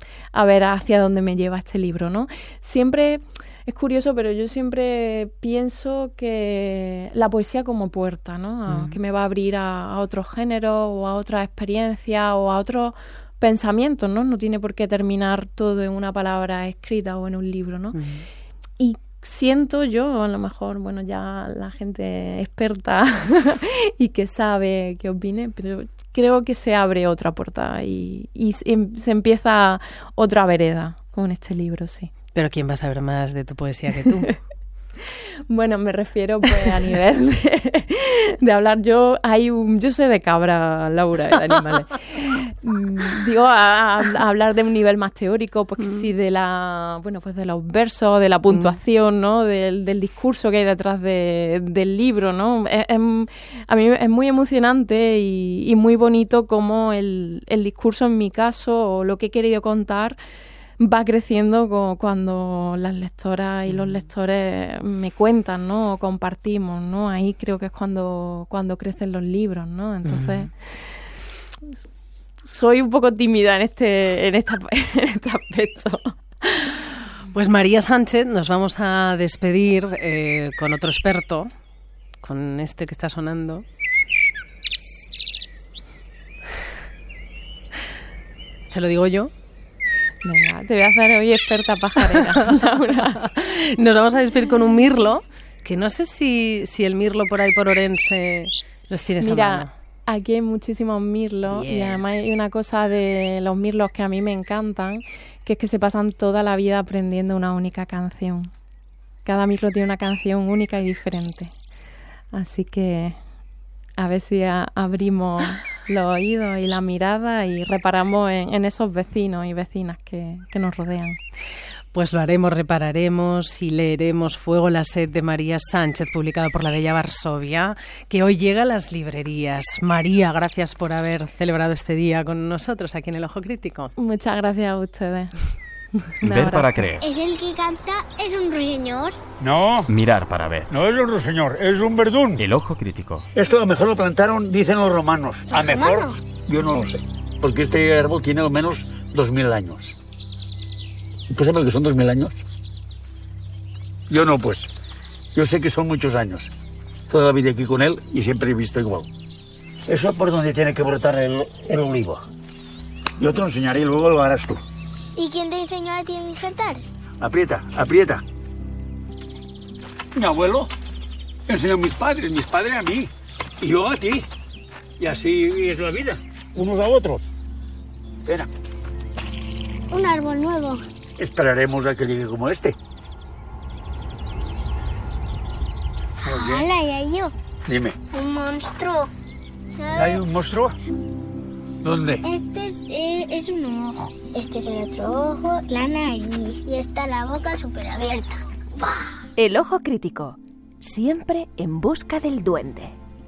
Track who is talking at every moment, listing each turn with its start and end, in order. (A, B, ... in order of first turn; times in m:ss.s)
0:00.3-0:18.0 A
0:08.7-0:09.0 B
0:18.0-0:18.2 B
0:18.8-0:32.1 A
0:32.3-0:34.3 B
0:35.5-1:00.2 A
1:00.8-1:10.5 A
1:03.7-1:04.0 B
1:10.0-1:10.5 B
1:12.4-1:16.8 A
1:17.3-1:21.5 B
1:22.2-1:23.6 B
1:28.7-1:29.3 B
1:30.2-1:33.3 A
1:33.3-1:39.7 B
1:39.2-1:48.5 A
1:41.5-1:42.0 B
1:49.2-1:51.5 A
1:52.3-1:53.2 A
1:54.0-2:01.2 A
2:01.9-2:13.9 B
2:14.0-2:15.3 A
2:16.0-2:16.9 A
2:16.2-2:17.0 C
2:17.0-2:19.2 D
2:19.4-2:19.9 E
2:19.9-2:20.6 C
2:20.7-2:22.4 E
2:22.4-2:23.2 C
2:23.3-2:29.9 E
2:25.5-2:26.2 D
2:31.3-2:32.4 E
2:34.1-2:34.7 E
2:35.3-2:36.5 E
2:37.1-2:39.1 E
2:39.9-2:42.2 E
2:43.2-2:44.6 E
2:45.2-2:46.8 D
2:47.2-2:48.2 E
2:50.1-2:50.7 E
2:51.5-2:53.1 E
2:53.6-2:54.2 E
2:55.0-2:57.3 E
2:59.9-3:00.8 D
3:01.2-3:02.8 E
3:06.2-3:06.6 E
3:06.3-3:07.3 D
3:07.6-3:08.0 E
3:08.1-3:09.1 D
3:09.8-3:10.2 D
3:09.9-3:10.8 E
3:11.8-3:12.2 E
3:12.2-3:19.2 D
3:19.4-3:22.9 F